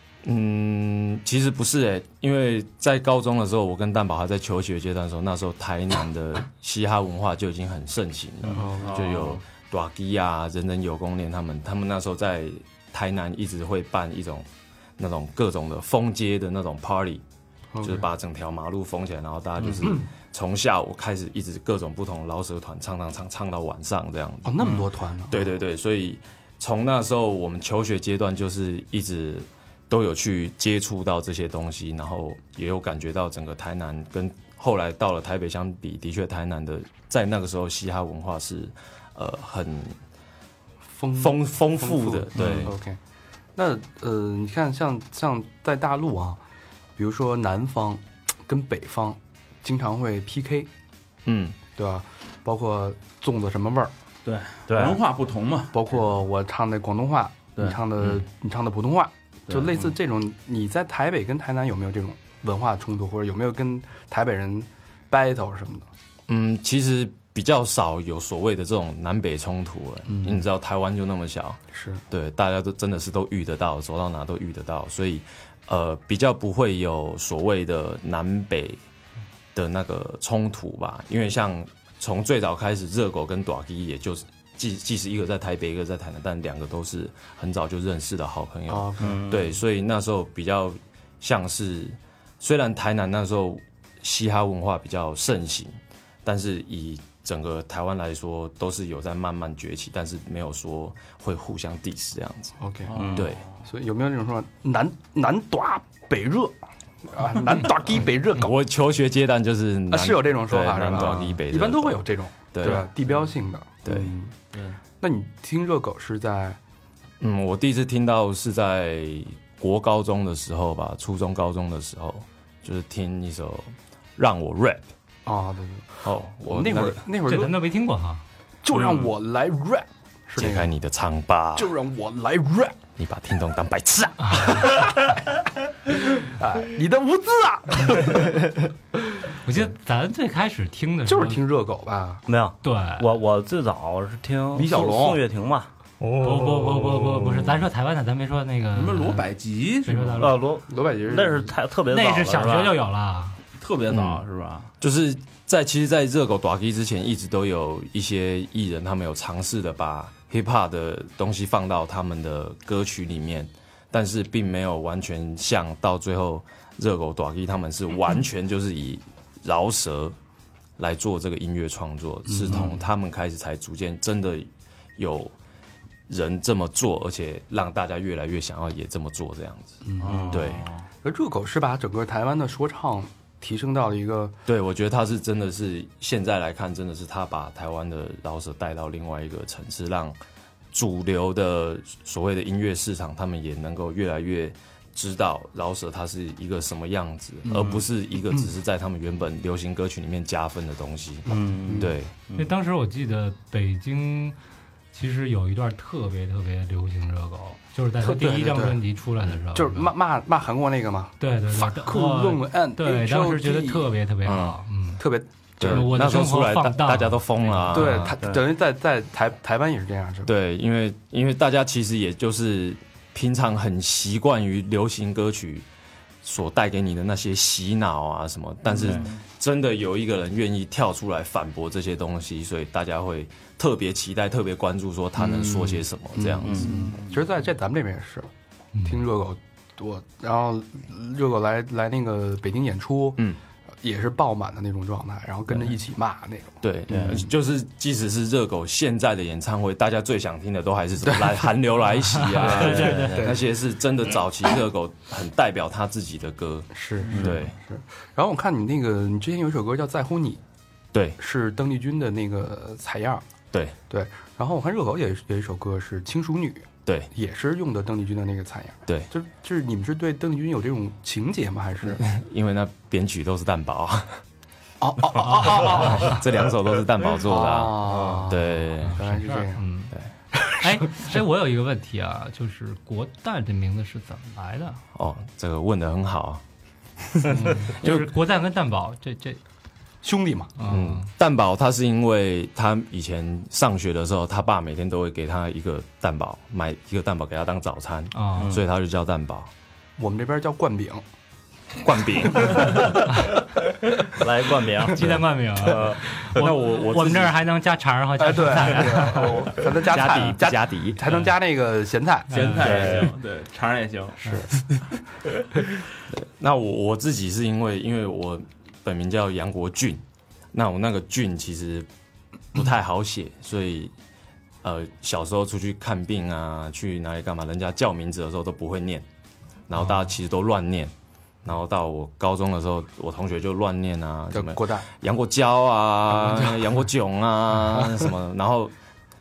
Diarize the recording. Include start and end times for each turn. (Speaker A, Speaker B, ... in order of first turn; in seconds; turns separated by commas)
Speaker A: 0.2-17.2, Speaker B: 8.5-9.4, Speaker C: 8.6-9.1, Speaker C: 17.7-18.1, Speaker A: 17.8-40.0, Speaker C: 24.4-25.5, Speaker C: 40.9-43.0, Speaker A: 41.1-42.7, Speaker B: 42.4-42.7, Speaker C: 43.6-46.4, Speaker C: 47.0-50.7, Speaker A: 51.2-51.6, Speaker C: 51.8-53.9, Speaker B: 54.2-56.0, Speaker D: 54.7-55.0, Speaker C: 55.7-65.9, Speaker B: 59.5-59.9, Speaker A: 66.3-78.8, Speaker C: 70.1-70.4, Speaker C: 71.7-72.0, Speaker A: 79.5-102.5, Speaker C: 88.7-89.2, Speaker D: 89.0-89.5, Speaker C: 102.6-103.0, Speaker B: 102.9-103.5, Speaker D: 103.0-103.2, Speaker A: 103.1-103.4, Speaker C: 103.6-106.5, Speaker C: 107.1-108.5, Speaker A: 108.3-112.9, Speaker C: 109.9-114.3, Speaker A: 113.8-114.1, Speaker C: 115.0-116.6, Speaker A: 117.2-124.9, Speaker C: 125.2-127.6, Speaker A: 126.0-127.0, Speaker E: 127.2-128.2, Speaker C: 128.6-130.7, Speaker A: 130.4-131.7, Speaker C: 131.6-132.8, Speaker A: 133.0-134.8, Speaker C: 136.2-138.5, Speaker E: 139.4-141.4, Speaker C: 141.1-142.2, Speaker D: 142.3-145.7, Speaker E: 142.6-143.1, Speaker C: 144.6-145.2, Speaker E: 146.2-149.3, Speaker B: 148.7-150.3, Speaker E: 149.8-150.4, Speaker D: 150.2-152.8, Speaker C: 150.7-151.5, Speaker E: 151.9-153.4, Speaker B: 153.6-154.7, Speaker A: 153.9-154.2, Speaker A: 154.8-170.2, Speaker A: 170.8-175.3, Speaker C: 172.2-172.8, Speaker A: 176.1-180.6, Speaker C: 179.8-180.4, Speaker B: 180.0-180.8, Speaker D: 180.1-180.4, Speaker C: 181.0-184.3, Speaker A: 184.5-190.2, Speaker A: 190.7-202.1, Speaker C: 197.4-198.5, Speaker D: 201.3-202.5, Speaker C: 201.3-201.9, Speaker E: 202.4-204.4, Speaker E: 204.9-209.9, Speaker C: 208.0-208.8, Speaker C: 209.5-213.9, Speaker E: 211.2-215.0, Speaker A: 214.2-214.6, Speaker C: 215.0-215.9, Speaker A: 215.6-218.2, Speaker E: 215.6-218.0, Speaker C: 217.7-220.3, Speaker A: 220.2-225.7, Speaker A: 226.2-236.7, Speaker B: 228.8-229.2, Speaker C: 235.2-238.3, Speaker B: 236.6-237.2, Speaker E: 238.8-239.0, Speaker C: 238.8-243.2, Speaker C: 243.8-247.3, Speaker A: 246.6-257.5, Speaker D: 246.9-247.2, Speaker E: 252.2-253.0, Speaker C: 252.4-253.4, Speaker D: 252.5-253.2, Speaker C: 256.7-260.4, Speaker B: 257.1-257.4, Speaker A: 260.9-261.2, Speaker C: 261.2-263.2, Speaker C: 263.9-272.0, Speaker A: 271.9-274.2, Speaker C: 274.8-276.2, Speaker A: 275.3-279.0, Speaker C: 277.2-279.6, Speaker D: 277.9-278.2, Speaker E: 278.8-279.9, Speaker C: 280.4-281.1, Speaker E: 280.6-284.8, Speaker A: 284.9-286.4, Speaker A: 287.0-288.1, Speaker E: 287.4-289.4, Speaker C: 290.0-290.5, Speaker E: 290.6-291.1, Speaker A: 290.6-299.5, Speaker E: 298.1-298.6, Speaker C: 300.0-301.0, Speaker A: 301.8-303.0, Speaker D: 304.1-306.0, Speaker E: 304.9-309.5, Speaker A: 306.2-307.4, Speaker C: 308.2-312.5, Speaker A: 309.7-311.2, Speaker E: 312.3-312.9, Speaker B: 312.3-314.4, Speaker D: 312.6-313.1, Speaker C: 314.2-314.5, Speaker A: 316.1-321.9, Speaker A: 322.5-323.9, Speaker A: 324.6-329.1, Speaker A: 329.7-330.9, Speaker A: 331.4-338.7, Speaker C: 334.3-334.9